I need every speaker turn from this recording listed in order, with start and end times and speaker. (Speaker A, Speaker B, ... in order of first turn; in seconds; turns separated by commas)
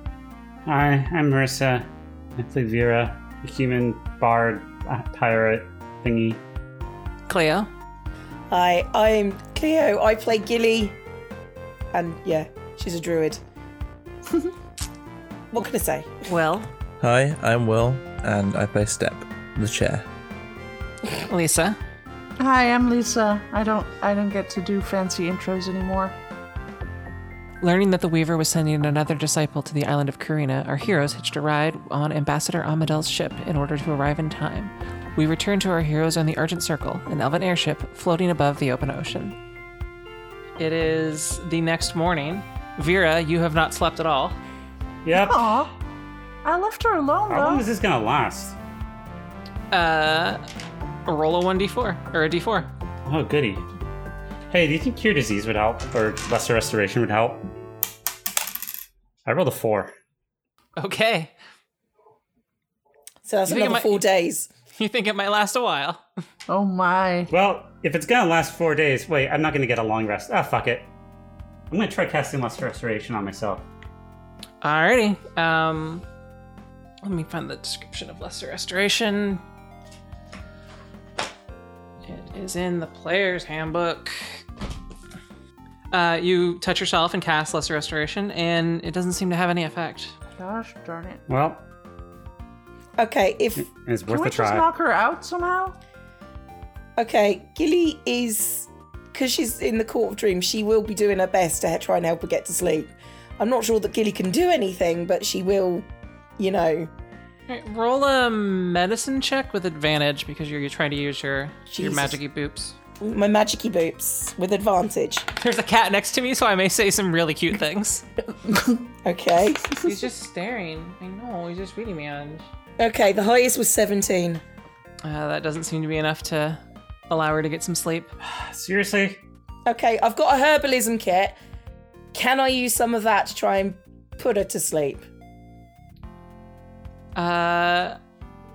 Speaker A: 0.7-6.4, Speaker B: 7.3-7.7, Speaker C: 8.5-11.0, Speaker C: 11.9-13.4, Speaker C: 15.5-16.2, Speaker B: 16.3-16.7, Speaker D: 17.0-20.1, Speaker B: 21.2-21.8, Speaker E: 22.4-26.2, Speaker B: 27.6-39.4, Speaker B: 40.6-44.4, Speaker A: 45.0-45.6, Speaker E: 45.1-45.7, Speaker E: 46.4-47.7, Speaker A: 47.3-48.6, Speaker B: 49.7-50.4, Speaker B: 51.1-52.7, Speaker A: 53.1-53.6, Speaker A: 54.5-57.5, Speaker A: 59.3-59.9, Speaker B: 60.8-61.3, Speaker C: 63.2-64.5, Speaker B: 63.5-64.0, Speaker B: 64.7-66.0, Speaker E: 66.5-67.3, Speaker A: 67.3-70.9, Speaker A: 71.7-73.7, Speaker B: 74.6-76.0, Speaker B: 77.0-79.4, Speaker B: 82.1-84.4, Speaker B: 85.9-90.2, Speaker E: 90.4-91.2, Speaker A: 91.3-91.6, Speaker C: 93.0-93.7, Speaker A: 93.6-94.7, Speaker E: 94.1-95.8, Speaker C: 97.0-105.9, Speaker C: 106.4-106.9, Speaker B: 107.5-112.8, Speaker C: 111.7-112.2, Speaker C: 113.0-115.3, Speaker B: 115.4-118.0, Speaker C: 119.0-119.8, Speaker B: 119.8-122.5, Speaker C: 122.8-124.4, Speaker B: 125.0-128.1, Speaker A: 128.2-129.2, Speaker C: 129.7-131.4, Speaker C: 132.1-135.1, Speaker B: 137.2-138.0